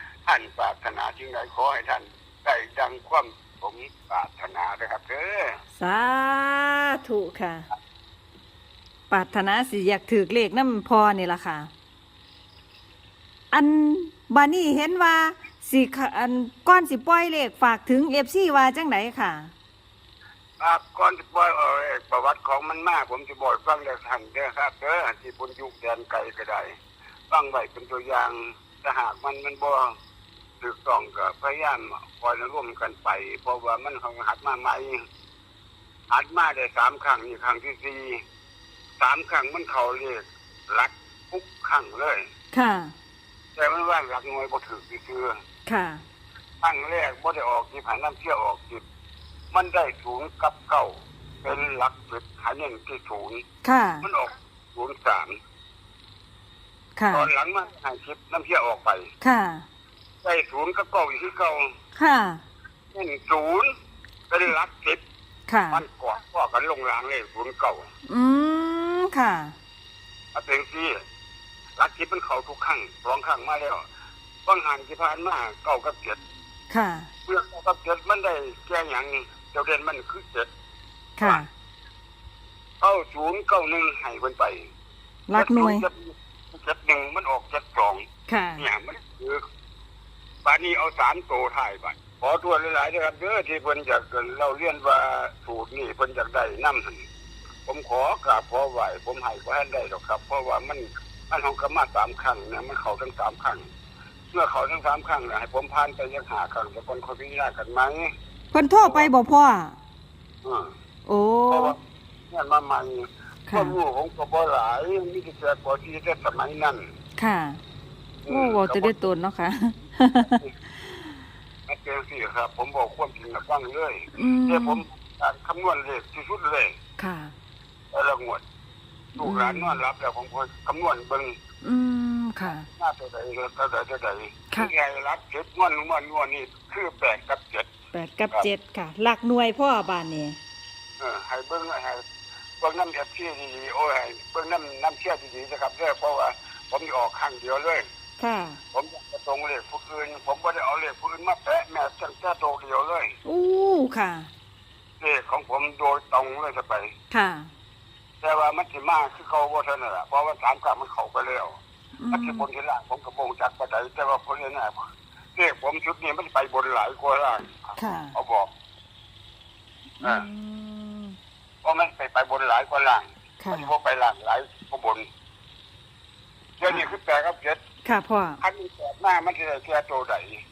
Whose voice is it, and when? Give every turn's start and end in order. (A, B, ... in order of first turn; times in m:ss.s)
0:00.2-0:05.5 A
0:05.8-0:07.7 B
0:09.1-0:11.7 B
0:13.5-0:19.5 B
0:20.6-0:26.7 A
0:27.3-0:29.9 A
0:30.6-0:35.0 A
0:36.1-0:38.2 A
0:39.0-0:42.2 A
0:42.5-0:42.9 B
0:43.6-0:45.3 A
0:45.7-0:46.0 B
0:46.6-0:48.8 A
0:49.5-0:50.9 A
0:51.4-0:53.4 A
0:53.6-0:54.0 B
0:54.0-0:55.3 A
0:57.0-0:57.3 B
0:57.1-0:59.1 A
0:59.2-0:59.6 B
1:00.2-1:01.7 A
1:01.9-1:02.4 B
1:02.9-1:03.7 A
1:04.3-1:05.0 A
1:05.5-1:05.8 B
1:05.7-1:07.8 A
1:08.1-1:09.5 B
1:10.3-1:11.0 A
1:11.8-1:13.8 A
1:14.4-1:16.2 A
1:16.7-1:17.1 B
1:17.3-1:20.5 A
1:21.2-1:21.5 B
1:22.8-1:24.6 A
1:25.3-1:25.8 B
1:25.3-1:28.0 A
1:28.3-1:28.7 B
1:28.6-1:29.4 A
1:30.4-1:37.0 A
1:37.6-1:43.6 A
1:44.3-1:48.1 A
1:48.5-1:49.8 B
1:48.8-1:49.1 A
1:50.4-1:50.7 A
1:51.1-1:51.7 B
1:51.5-1:51.8 A
1:52.3-1:56.8 A
1:53.5-1:53.8 B
1:57.2-1:57.6 B
1:58.2-1:59.0 A
1:58.3-2:00.9 B
2:01.7-2:06.7 A
2:04.1-2:04.8 B
2:07.0-2:07.3 B
2:07.9-2:08.4 A
2:09.2-2:11.3 A
2:09.2-2:09.8 B
2:11.6-2:12.7 B
2:12.4-2:17.7 A
2:17.9-2:20.4 B
2:21.0-2:22.0 A
2:22.6-2:27.8 A
2:28.2-2:28.6 B
2:28.7-2:33.1 A
2:33.2-2:34.3 B
2:35.0-2:36.9 A
2:37.1-2:37.5 B
2:38.2-2:41.5 A
2:42.0-2:42.4 B
2:42.1-2:44.8 A
2:45.4-2:48.5 A
2:47.8-2:48.1 B
2:50.0-2:51.2 B
2:51.6-2:55.0 A
2:53.4-2:53.7 B
2:56.6-2:57.6 A
2:56.7-2:56.9 B
2:57.8-2:58.4 B
2:58.4-3:00.4 A